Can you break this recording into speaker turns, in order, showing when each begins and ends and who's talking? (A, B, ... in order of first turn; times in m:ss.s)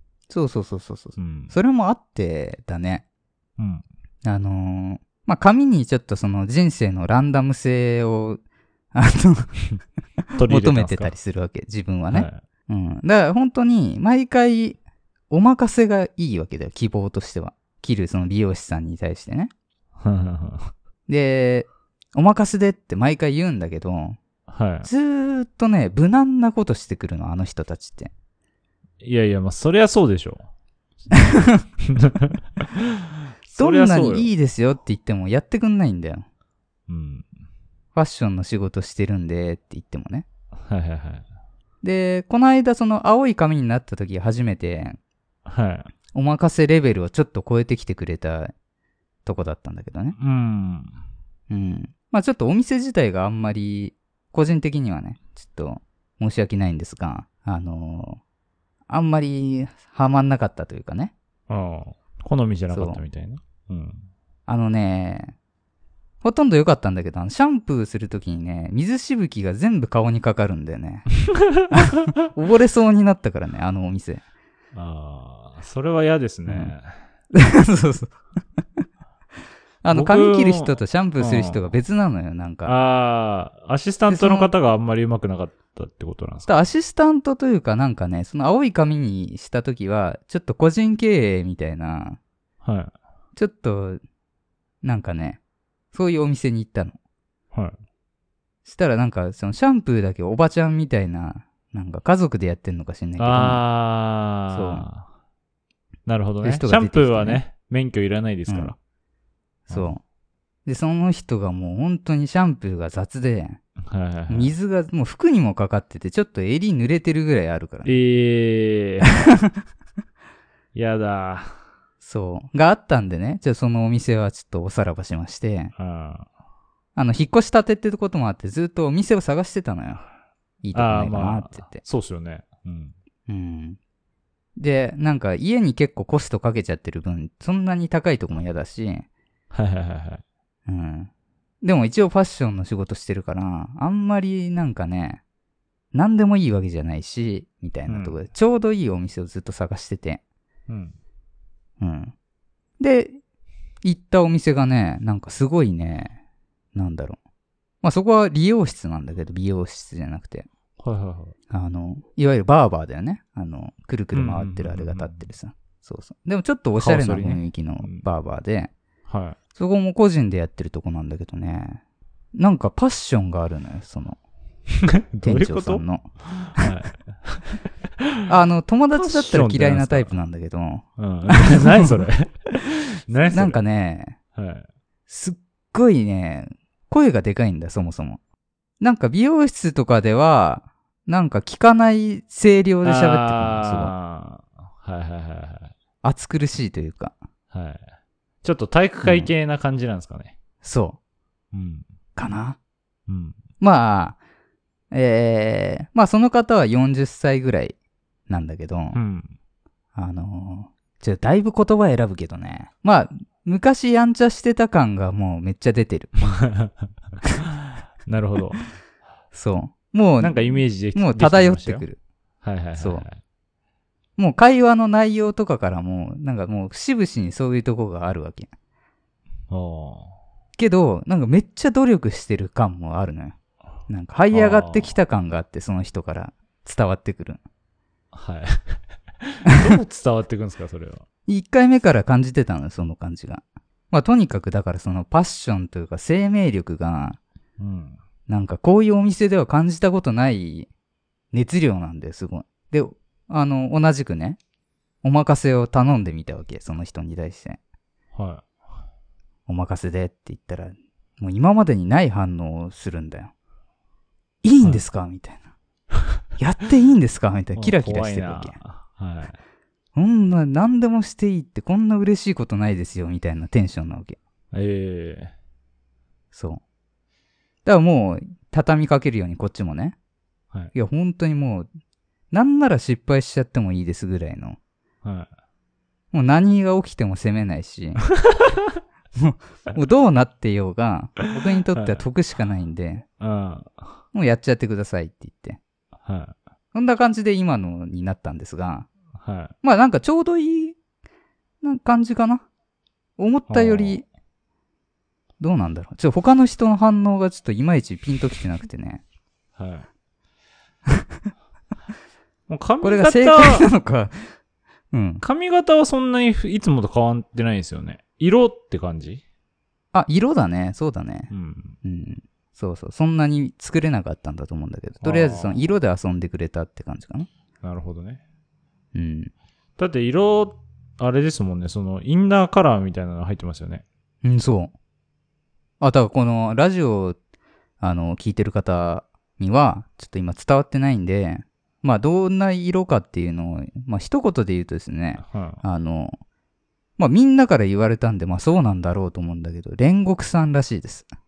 0:00.3-0:03.0 A
0:01.2-0:01.5 B
0:03.6-0:03.8 B
0:04.2-0:08.4 A
0:08.9-0:09.6 A
0:10.4-0:11.1 B
0:10.4-0:14.8 A
0:12.1-0:12.4 B
0:15.3-0:19.5 A
0:20.0-0:20.7 B
0:21.1-0:24.2 A
0:24.5-0:24.9 B
0:24.8-0:28.1 A
0:29.0-0:30.5 B
0:31.1-0:31.6 A
0:31.2-0:34.3 B
0:33.6-0:36.2 A
0:36.9-0:37.3 B
0:38.0-0:40.3 A
0:40.6-0:41.2 B
0:41.8-0:45.0 A
0:45.5-0:45.9 B
0:46.1-0:48.5 A
0:49.3-0:50.2 A
0:50.2-0:50.9 B
0:51.5-0:58.2 A
0:58.9-1:01.1 A
1:01.5-1:04.0 B
1:02.7-1:03.0 A
1:04.5-1:05.4 A
1:06.2-1:11.1 A
1:11.7-1:14.2 A
1:14.7-1:16.9 B
1:16.5-1:16.7 A
1:17.3-1:18.2 A
1:19.8-1:22.7 A
1:19.9-1:21.6 B
1:22.6-1:26.5 B
1:24.1-1:24.5 A
1:26.5-1:32.2 A
1:32.6-1:32.9 B
1:33.4-1:34.0 A
1:34.8-1:35.4 A
1:35.9-1:37.0 A
1:38.6-1:43.6 A
1:43.2-1:45.1 B
1:44.5-1:44.9 A
1:46.1-1:48.8 B
1:46.4-1:47.4 A
1:48.5-1:48.7 A
1:49.7-1:50.0 A
1:50.7-1:53.6 A
1:53.8-1:54.5 B
1:54.3-1:58.0 A
1:57.9-1:59.1 B
2:00.7-2:01.6 B
2:02.0-2:05.7 A
2:05.8-2:06.3 B
2:07.0-2:10.0 A
2:10.6-2:11.8 A
2:10.7-2:12.9 B
2:13.3-2:13.8 A
2:14.6-2:19.1 A
2:19.5-2:20.2 B
2:20.7-2:21.1 A
2:21.6-2:25.2 A
2:25.9-2:30.2 A
2:27.9-2:28.2 B
2:30.7-2:31.0 B
2:31.8-2:32.1 A
2:32.8-2:33.2 A
2:33.8-2:36.2 A
2:36.8-2:37.2 A
2:37.8-2:40.5 A
2:40.8-2:41.3 B
2:41.5-2:48.7 A
2:44.1-2:45.3 B
2:46.8-2:48.0 B
2:49.1-2:49.4 B
2:49.6-2:51.8 A
2:52.3-2:54.2 A
2:54.8-2:58.2 B
2:55.2-2:56.1 A
2:58.3-3:01.9 A
2:59.0-3:00.2 B
3:01.0-3:03.6 B
3:03.3-3:04.2 A
3:04.4-3:04.7 B
3:05.1-3:08.2 A
3:08.8-3:13.9 A
3:12.8-3:15.7 B
3:16.0-3:17.1 A
3:17.5-3:17.8 B
3:18.4-3:20.4 B
3:19.0-3:19.3 A
3:20.6-3:21.0 A
3:21.5-3:21.9 B
3:22.2-3:22.6 A
3:23.1-3:23.4 B
3:23.6-3:24.2 A
3:24.9-3:27.8 A
3:28.3-3:29.0 A
3:28.9-3:29.3 B
3:30.0-3:36.2 A
3:36.4-3:36.7 B
3:38.0-3:38.6 B
3:39.3-3:42.0 A
3:40.2-3:41.9 B
3:42.4-3:43.2 B
3:42.8-3:43.1 A
3:44.2-3:48.5 A
3:49.5-3:50.1 B
3:50.6-3:53.4 A
3:53.9-3:57.4 A
3:54.3-3:55.0 B
3:58.1-4:01.0 B
4:01.3-4:07.2 A
4:07.6-4:08.0 B
4:08.3-4:10.7 A
4:11.3-4:14.4 A
4:15.0-4:17.6 A
4:18.1-4:18.5 B
4:19.5-4:23.3 A
4:24.4-4:25.5 A
4:26.4-4:28.6 A
4:27.6-4:29.4 B
4:30.0-4:34.2 A
4:34.5-4:35.3 B
4:36.3-4:36.6 A
4:37.6-4:40.0 A
4:40.7-4:41.7 A
4:42.3-4:44.6 A
4:45.0-4:45.3 B
4:46.1-4:48.1 A
4:48.2-4:48.6 B
4:49.2-4:53.1 A
4:51.8-4:52.0 B
4:53.2-4:54.0 B
4:54.1-4:55.6 A
4:56.0-4:56.4 B
4:56.7-4:58.9 A
4:59.2-4:59.5 B
4:59.6-5:00.8 A
5:01.6-5:02.4 A
5:03.2-5:04.0 A
5:03.5-5:04.0 B
5:05.4-5:09.0 A
5:09.6-5:09.9 B
5:12.5-5:13.7 B
5:12.8-5:14.3 A
5:14.9-5:15.2 A
5:15.2-5:19.2 B
5:19.9-5:21.3 A
5:21.3-5:21.8 B
5:21.8-5:27.3 A
5:25.0-5:25.6 B
5:27.6-5:28.2 B
5:28.9-5:29.3 A
5:29.8-5:33.8 B
5:34.2-5:34.7 A
5:35.8-5:37.2 A
5:37.8-5:46.2 A
5:45.2-5:45.6 B
5:47.0-5:51.1 A